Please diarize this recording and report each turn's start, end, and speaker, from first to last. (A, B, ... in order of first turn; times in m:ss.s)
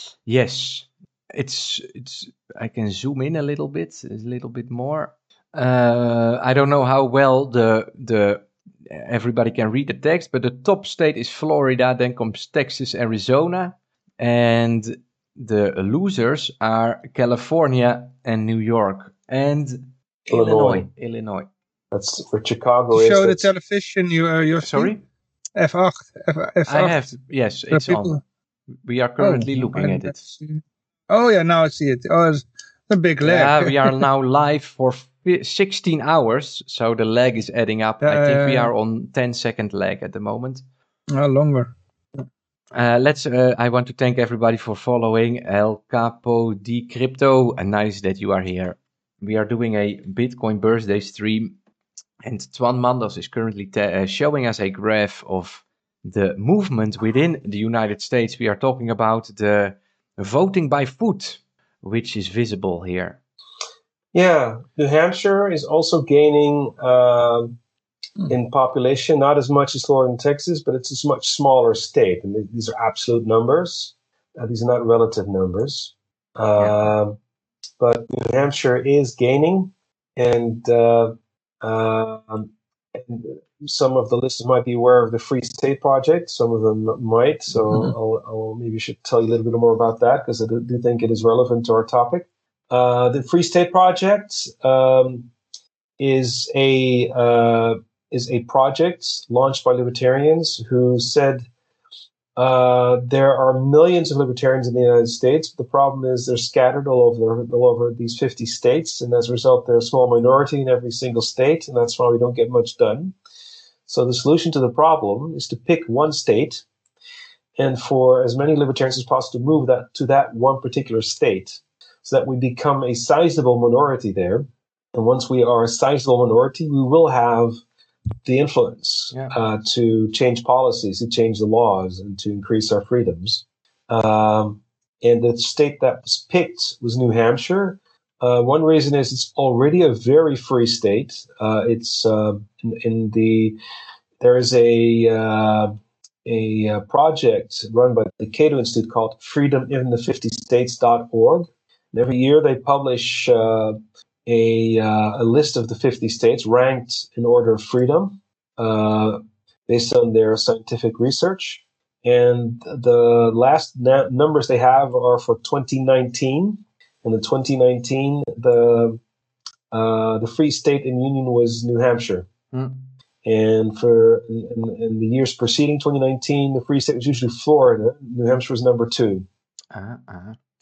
0:00.2-0:21.5 A
0:20.3-0:20.9 B
0:21.9-0:23.5 B
0:22.9-0:24.9 C
0:24.6-0:25.0 A
0:25.6-0:27.0 C
0:26.7-0:28.2 A
0:27.7-0:28.2 C
0:28.8-0:30.4 A
0:29.2-0:34.0 C
0:33.2-0:40.6 A
0:38.0-0:38.7 C
0:41.1-0:42.2 C
0:42.7-0:51.6 A
0:52.2-1:03.2 A
1:04.1-1:07.6 B
1:08.3-1:17.2 B
1:16.6-1:16.9 A
1:17.8-1:35.3 B
1:36.0-1:41.5 B
1:42.4-1:53.1 B
1:53.9-1:56.6 B
1:57.6-2:07.6 B
2:08.2-2:23.6 B
2:24.2-2:49.0 B
2:49.7-2:52.3 B
2:52.5-2:52.9 A
2:53.2-2:59.2 B
2:59.7-3:00.4 A